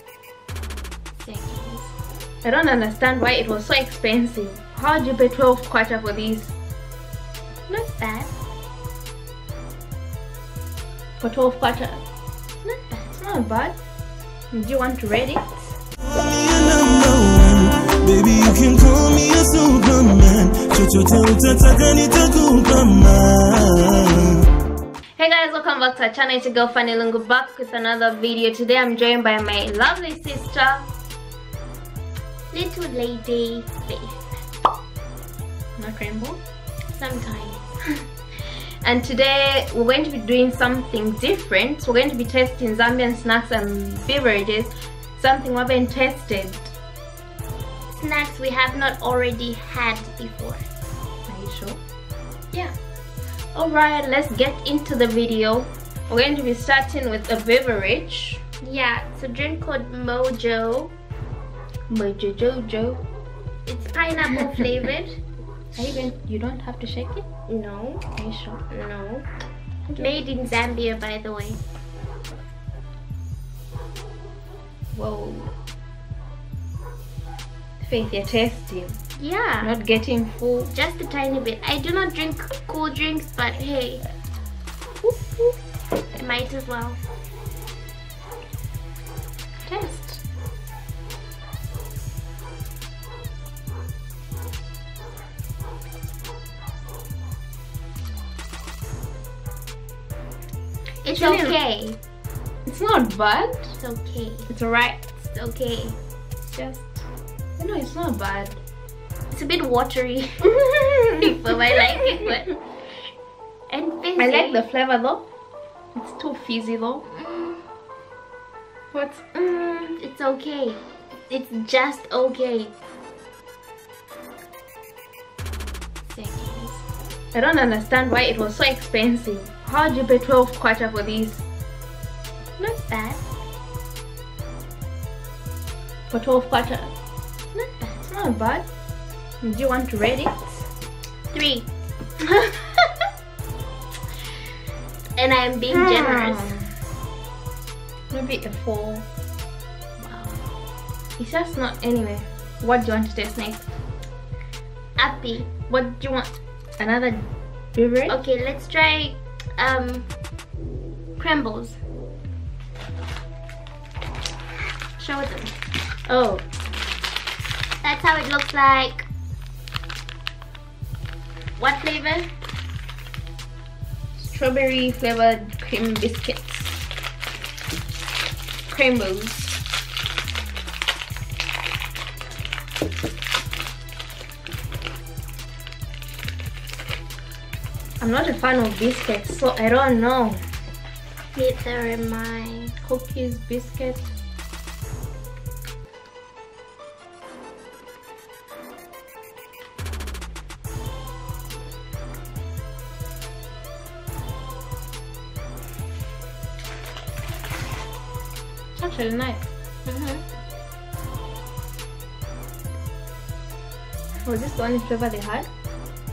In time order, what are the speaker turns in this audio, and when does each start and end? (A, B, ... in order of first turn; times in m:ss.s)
0:01.2-0:01.9 A
0:02.4-0:06.6 B
0:07.7-0:08.3 A
0:11.2-0:12.0 B
0:12.7-0:13.1 A
0:13.1-0:13.8 B
0:14.5-0:15.8 B
0:16.1-0:24.2 C
0:25.2-0:30.9 B
0:32.5-0:34.4 A
0:35.8-0:36.4 B
0:36.9-0:37.6 A
0:38.8-0:46.7 B
0:47.9-0:50.6 A
0:51.3-0:51.8 B
0:53.5-0:58.4 B
0:58.6-1:00.9 A
1:01.9-1:03.0 B
1:03.7-1:05.2 A
1:04.2-1:04.7 B
1:05.8-1:07.2 B
1:07.5-1:08.0 A
1:08.2-1:08.6 B
1:08.7-1:09.3 A
1:10.0-1:11.6 A
1:14.9-1:15.5 B
1:17.8-1:19.0 B
1:19.2-1:19.8 A
1:19.6-1:20.7 B
1:20.7-1:24.0 A
1:25.1-1:25.5 A
1:26.2-1:27.0 A
1:29.7-1:30.2 B
1:41.0-1:42.0 A
1:41.1-1:41.6 B
1:42.7-1:43.8 B
1:43.8-1:44.5 A
1:44.5-1:45.0 B
1:45.1-1:46.0 A
1:46.4-1:47.0 B
1:47.6-1:48.6 B
1:49.3-1:50.6 A
1:50.4-1:51.4 B
1:51.2-1:52.6 A
1:53.7-1:54.6 A
1:54.2-1:55.2 B
1:56.0-1:57.0 B
1:57.1-1:57.6 A
1:58.9-2:00.0 B
2:00.0-2:02.7 A
2:06.1-2:06.9 A
2:07.3-2:11.5 B
2:12.6-2:13.2 A
2:16.1-2:16.9 B
2:17.5-2:18.0 A
2:18.0-2:18.6 B
2:19.4-2:20.7 B
2:21.3-2:21.7 A
2:22.2-2:22.8 B
2:25.2-2:26.5 A
2:25.7-2:26.7 B
2:28.1-2:29.0 B
2:30.0-2:30.4 A
2:31.2-2:33.7 B
2:35.0-2:35.5 A
2:35.7-2:38.2 B
2:38.1-2:40.1 A
2:41.2-2:41.8 A
2:45.0-2:45.6 A
2:46.1-2:46.4 B
2:47.8-2:49.1 A
2:51.6-2:52.3 A
2:54.2-2:56.8 B
2:58.7-2:59.6 B
3:08.0-3:10.4 B
3:11.4-3:12.7 A
3:12.8-3:14.1 B
3:28.8-3:29.4 B
3:29.9-3:30.2 A
3:34.3-3:35.5 B